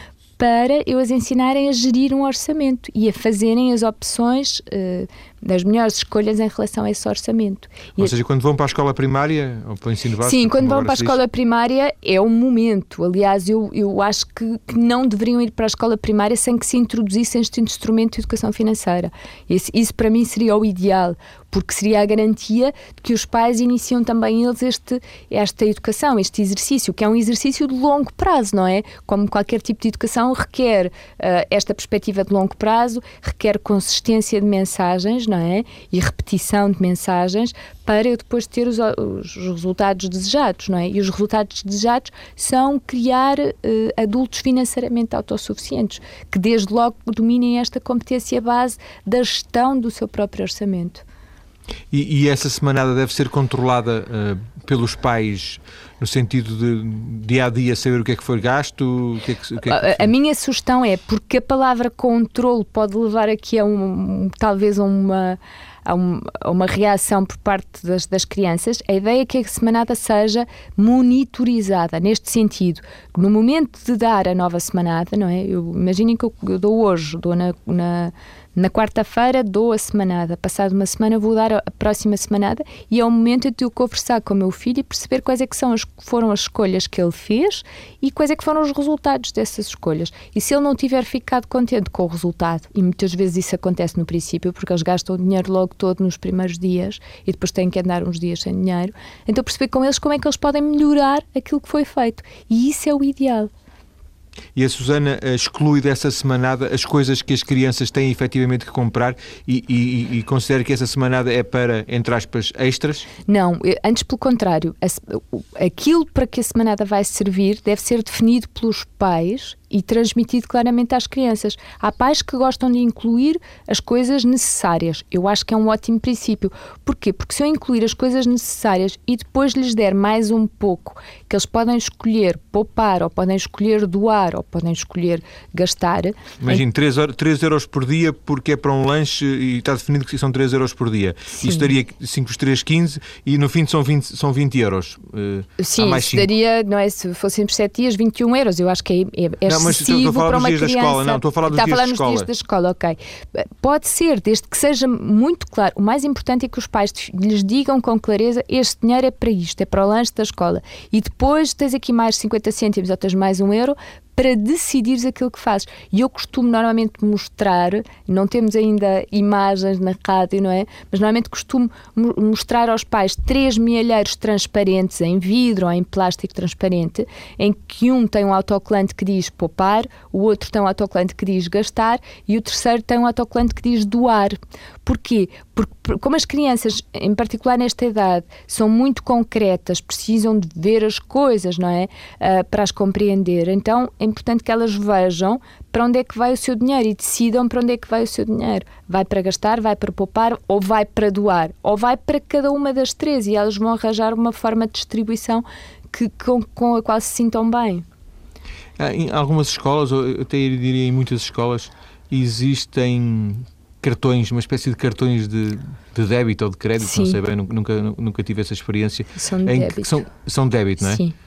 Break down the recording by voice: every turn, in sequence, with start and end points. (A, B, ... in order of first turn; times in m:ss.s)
0:00.4-0:08.1 A
0:08.0-0:11.2 B
0:10.2-0:51.0 A
0:51.9-1:00.1 B
0:59.6-1:43.5 A
1:44.5-1:53.1 B
1:53.2-2:16.6 A
2:16.4-2:26.3 B
2:21.3-2:21.7 A
2:25.6-3:27.8 A
2:29.4-2:32.3 B
3:28.8-3:41.0 B
3:36.8-3:37.2 A
3:39.2-3:39.9 A
3:40.8-3:41.1 A